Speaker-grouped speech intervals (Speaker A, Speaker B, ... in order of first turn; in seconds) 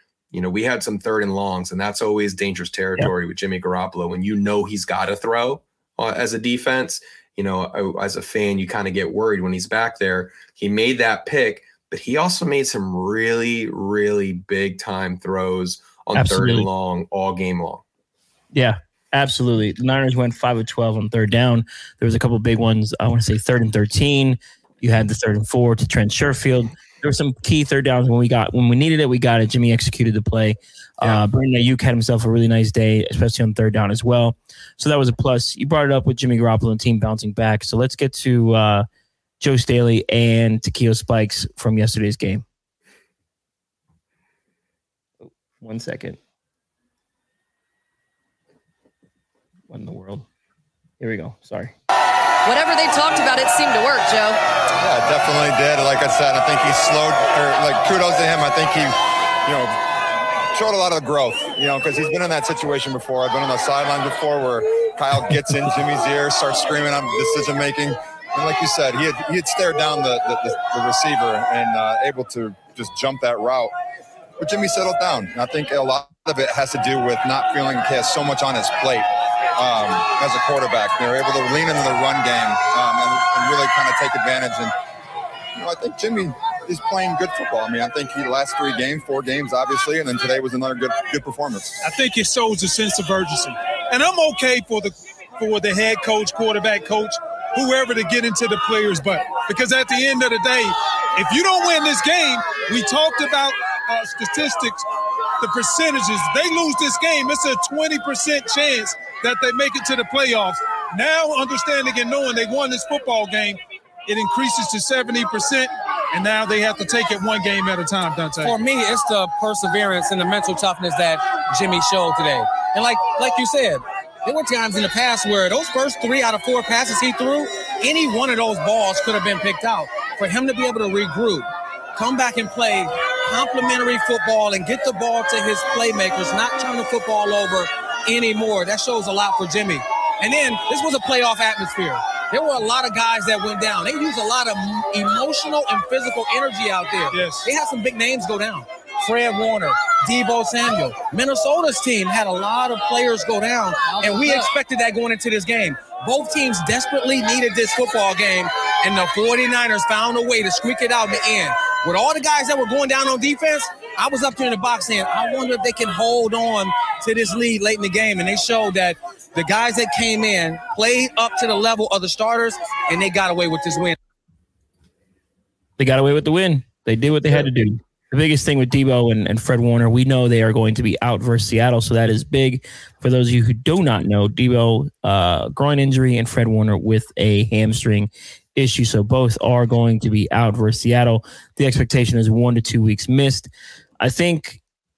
Speaker A: 0.3-17.8
Speaker B: 16.1-16.7, 18.5-38.8, 39.4-42.4, 45.6-46.2, 49.7-50.2, 51.0-51.7, 175.8-193.5, 194.0-194.6
Speaker C: 52.4-54.4, 154.1-154.3
Speaker D: 54.8-59.8, 60.5-73.7, 74.4-84.7, 85.5-91.8
Speaker E: 91.8-104.8, 105.4-118.6, 147.1-147.5
Speaker F: 118.4-174.0